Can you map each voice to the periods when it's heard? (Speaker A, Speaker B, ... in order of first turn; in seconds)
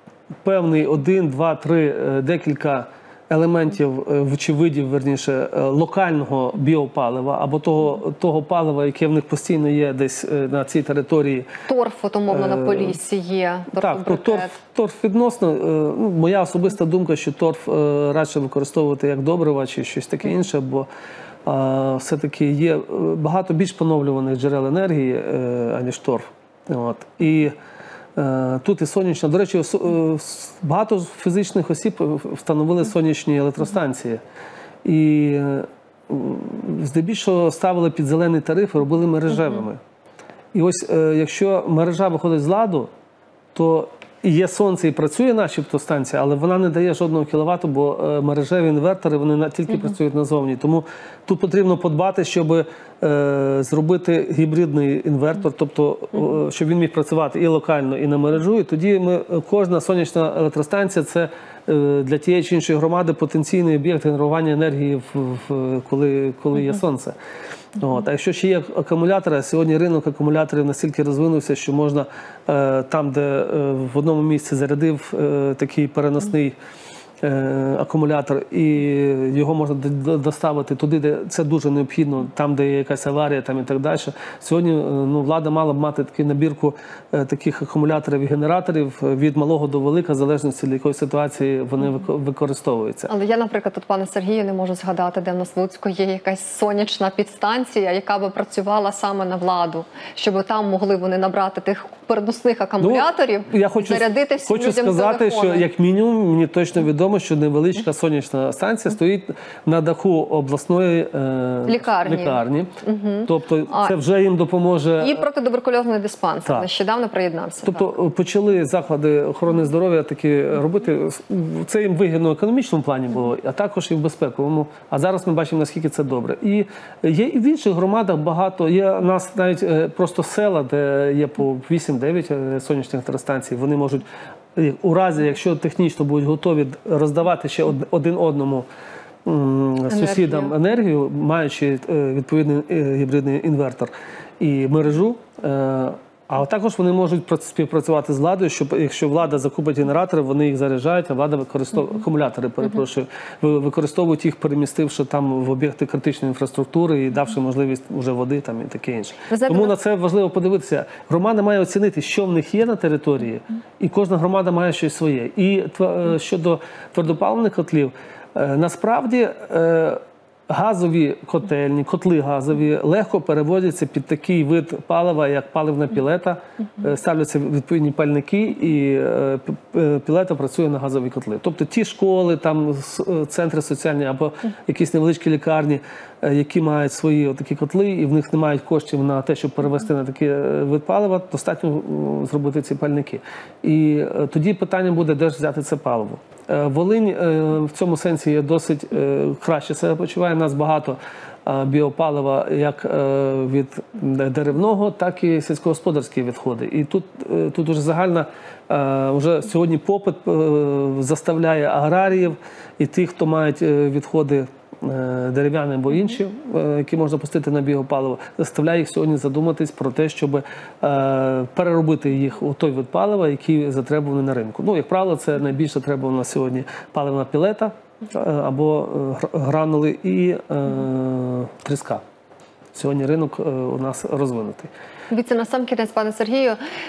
Speaker A: 0.4-11.5, 12.3-13.0, 13.8-20.9, 21.4-27.5, 28.1-34.2, 34.8-39.8, 40.5-42.9, 43.5-67.1, 67.8-76.5, 77.2-93.1, 102.8-112.8, 113.3-115.2, 117.6-134.0, 134.5-138.7, 139.2-232.0, 232.7-234.7
Speaker B: 11.7-14.6, 93.1-105.7, 111.7-113.9, 115.0-117.9, 139.9-140.5, 159.3-159.7, 235.1-236.6